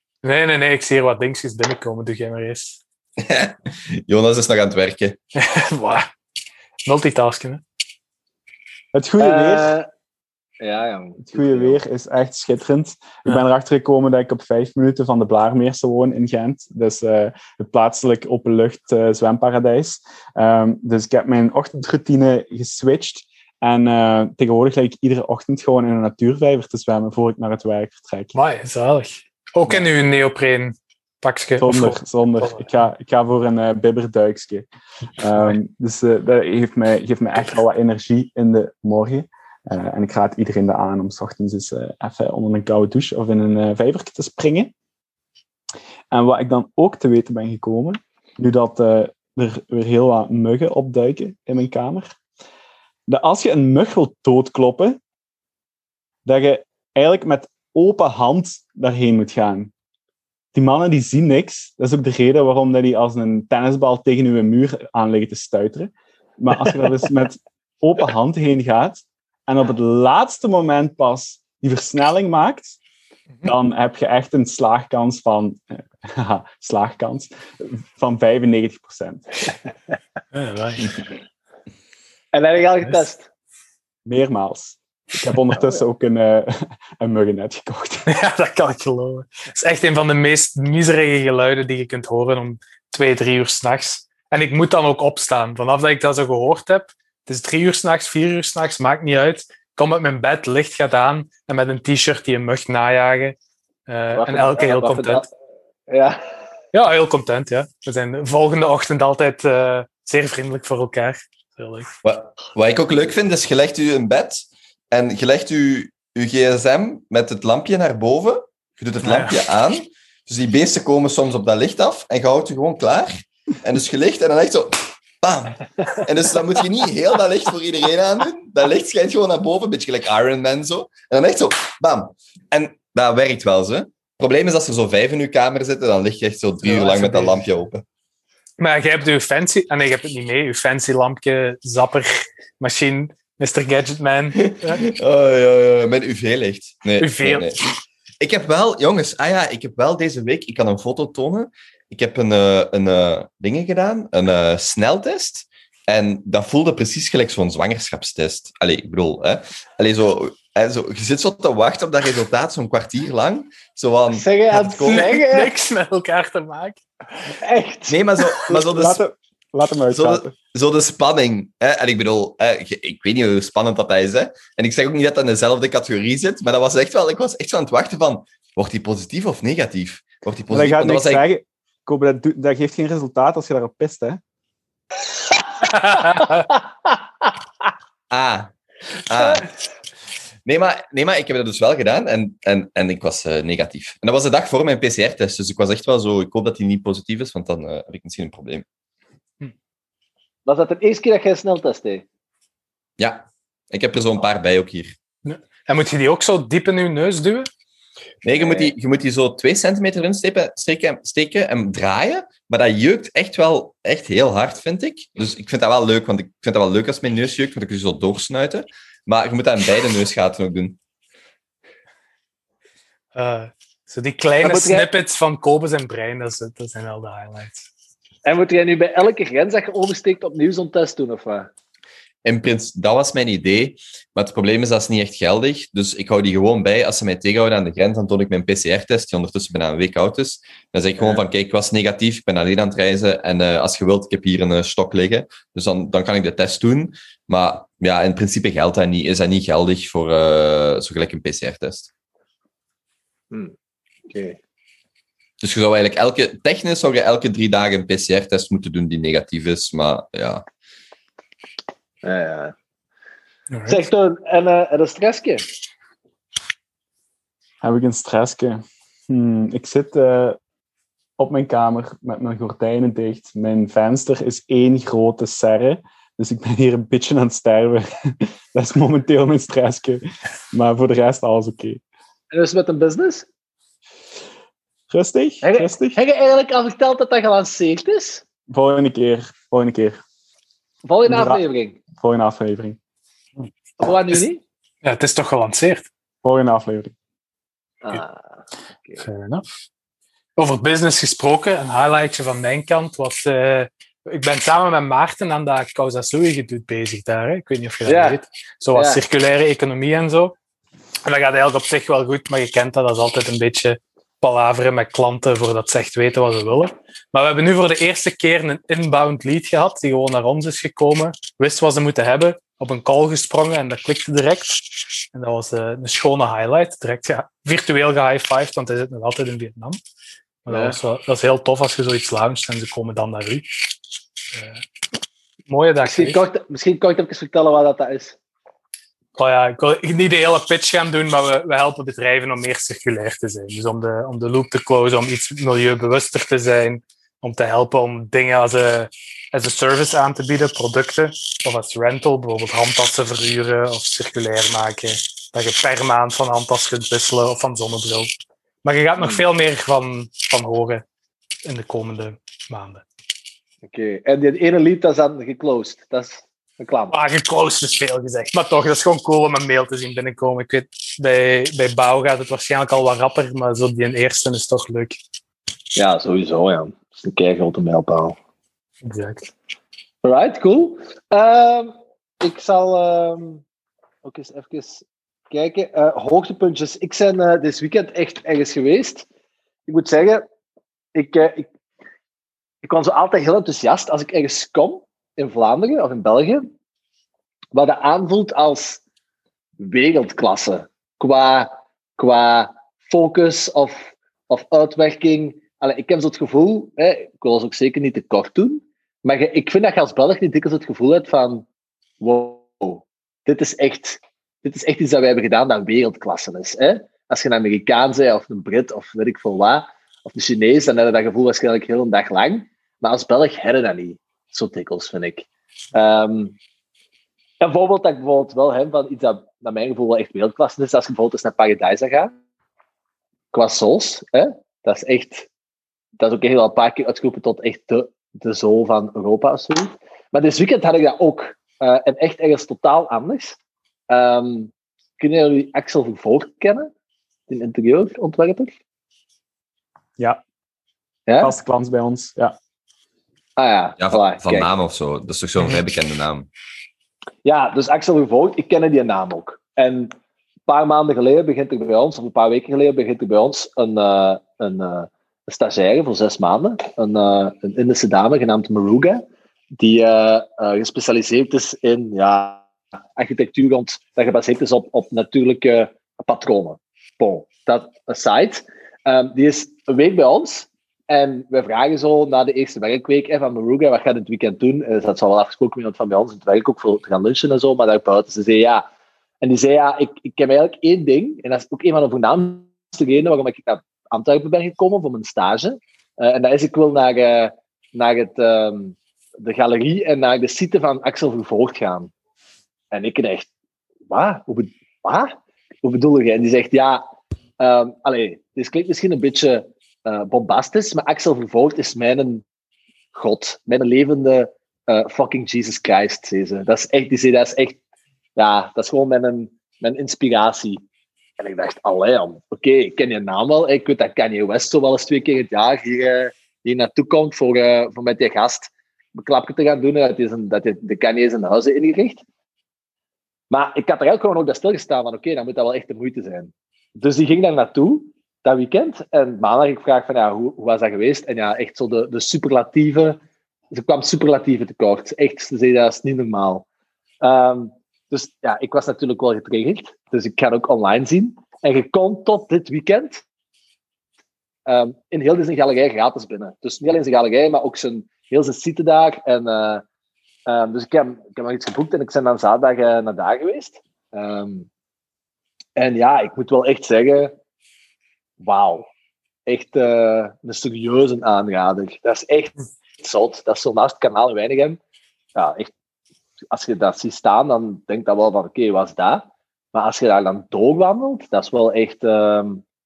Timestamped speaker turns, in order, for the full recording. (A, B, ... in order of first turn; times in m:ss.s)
0:00.2-0:02.8 A
0:03.2-0:05.2 B
0:05.4-0:06.1 A
0:06.9-0:07.6 A
0:08.9-0:09.7 C
0:09.2-0:09.9 D
0:10.6-0:11.8 D
0:11.2-0:28.3 C
0:28.3-0:32.7 A
0:31.6-0:34.7 C
0:35.2-0:44.7 C
0:46.1-0:52.1 C
0:53.1-0:55.0 C
0:56.2-0:59.7 C
1:00.5-1:12.8 C
1:13.4-1:19.2 C
1:20.3-1:21.0 A
1:22.3-1:23.3 D
1:24.1-1:28.1 C
1:28.1-1:43.4 A
1:43.9-1:45.3 A
1:44.1-1:45.3 D
1:45.9-1:46.2 D
1:46.7-1:51.9 A
1:52.0-2:17.8 B
1:59.0-1:59.4 A
2:16.6-2:17.4 A
2:18.6-2:24.8 A
2:24.4-2:27.7 B
2:27.0-2:27.5 A
2:28.2-2:45.1 B
2:44.1-2:45.5 D
2:44.8-2:46.8 A
2:47.4-2:48.0 D
2:47.9-2:49.0 B
2:48.5-2:50.4 C
2:49.9-3:01.2 B
3:00.5-3:04.2 C
3:05.9-3:06.5 A
3:08.1-3:08.5 B
3:09.1-3:09.5 B
3:10.5-3:18.6 B
3:20.5-3:22.0 D
3:23.0-3:25.0 B
3:25.2-3:27.5 A
3:28.2-3:40.8 B
3:28.3-3:28.7 D
3:43.2-3:47.7 A
3:44.4-3:45.0 D
3:48.2-3:51.5 D
3:52.2-4:11.9 B
4:14.1-4:14.4 D
4:15.4-4:20.4 B
4:22.0-4:22.6 D
4:23.5-4:23.8 A
4:23.7-4:25.5 D
4:27.6-4:30.4 C
4:31.2-4:41.8 C
4:42.3-4:43.3 D
4:44.9-4:46.0 C
4:45.4-4:48.2 D
4:48.5-4:50.0 C
4:50.8-4:51.8 D
4:51.0-4:51.4 C
4:51.9-4:52.8 C
4:53.8-4:54.4 D
4:54.8-4:55.9 A
4:56.2-4:56.9 C
4:57.8-4:59.0 D
4:59.0-4:59.5 A
5:00.4-5:10.4 A
5:07.9-5:08.2 D
5:08.8-5:09.0 D
5:11.0-5:29.8 A
5:30.5-5:33.7 A
5:30.5-5:30.8 D
5:34.3-5:34.6 A
5:35.5-5:36.2 A
5:35.8-5:38.2 D
5:39.2-5:58.1 A
5:58.6-6:00.8 A
6:01.4-6:02.8 A
6:03.6-6:07.0 D
6:06.9-6:15.0 A
6:15.8-6:18.2 D
6:18.8-6:19.3 A
6:20.0-6:23.4 D
6:24.0-6:29.1 D
6:29.7-6:30.3 D
6:31.0-6:31.5 D
6:32.6-6:36.5 D
6:37.5-6:38.8 D
6:39.6-6:51.5 D
6:52.0-7:06.4 D
7:07.4-7:12.1 D
7:13.3-7:15.3 D
7:16.0-7:23.4 D
7:23.9-7:26.7 D
7:27.3-7:28.5 D
7:31.1-7:31.4 D
7:31.2-7:32.4 C
7:33.4-7:34.5 D
7:33.8-7:36.3 B
7:37.2-7:39.9 D
7:40.5-7:49.0 D
7:49.6-7:52.4 D
7:53.0-8:08.6 D
8:09.2-8:21.9 D
8:22.7-8:23.3 D
8:23.9-8:26.8 D
8:27.4-8:32.2 D
8:32.9-8:37.6 D
8:38.2-8:40.6 D
8:41.2-8:52.0 D
8:53.3-9:03.0 D
9:03.5-9:06.4 D
9:07.0-9:13.0 D
9:14.5-9:19.6 D
9:20.3-9:24.5 D
9:25.6-9:27.1 D
9:28.2-9:28.7 D
9:29.3-9:34.6 D
9:35.2-9:35.5 D
9:36.3-9:42.4 D